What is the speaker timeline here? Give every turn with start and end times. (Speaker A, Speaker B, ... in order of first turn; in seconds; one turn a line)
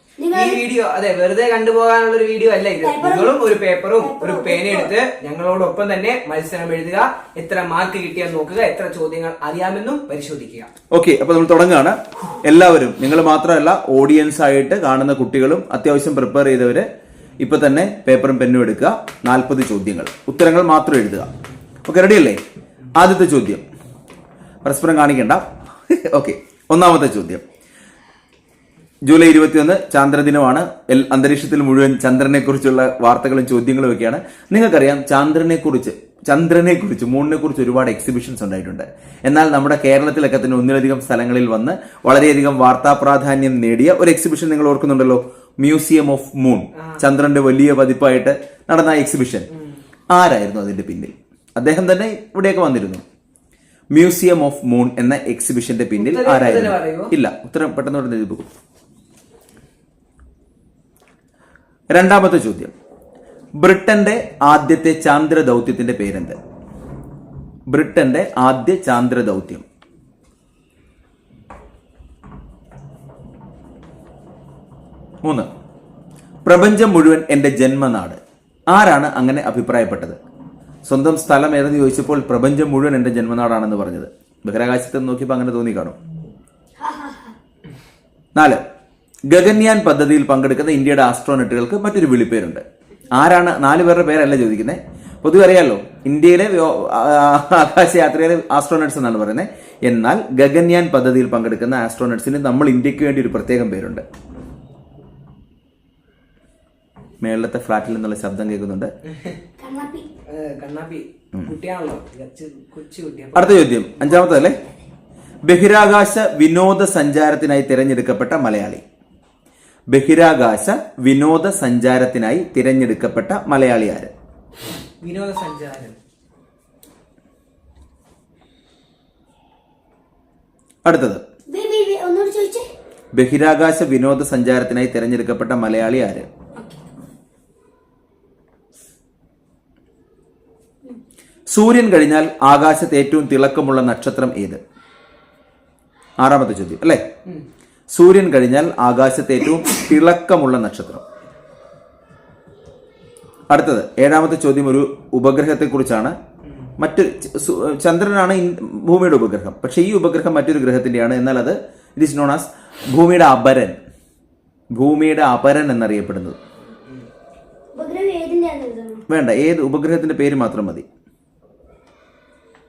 Speaker A: 0.2-0.6
Speaker B: 0.3-10.7
Speaker A: 2.8-3.4
Speaker A: 4.0-4.9
Speaker C: 10.9-16.9
Speaker C: 17.4-21.3
Speaker C: 21.8-22.4
Speaker C: 22.9-23.6
Speaker C: 24.6-27.4
Speaker C: 29.0-49.5
Speaker B: 46.7-47.0
Speaker B: 49.5-49.8
Speaker C: 50.1-53.0
Speaker C: 53.9-58.5
Speaker B: 56.0-57.1
Speaker C: 61.9-62.7
Speaker C: 63.6-66.4
Speaker C: 67.7-69.6
Speaker C: 75.2-75.5
Speaker C: 76.4-80.2
Speaker C: 80.8-85.9
Speaker A: 86.8-87.3
Speaker C: 88.3-88.6
Speaker C: 89.3-104.0
Speaker C: 107.2-108.9
Speaker B: 109.1-109.4
Speaker A: 109.6-110.1
Speaker B: 110.2-114.4
Speaker C: 113.3-114.6
Speaker C: 115.4-118.8
Speaker C: 119.9-124.1
Speaker B: 125.0-126.0
Speaker C: 130.8-131.2
Speaker A: 131.5-132.7
Speaker C: 133.1-136.3
Speaker A: 136.6-136.8
Speaker C: 141.5-144.6
Speaker C: 146.2-147.0
Speaker C: 147.9-151.0
Speaker C: 153.5-156.2
Speaker B: 156.4-156.7
Speaker C: 156.8-163.8
Speaker C: 164.7-166.4
Speaker A: 167.7-169.0
Speaker C: 169.1-170.8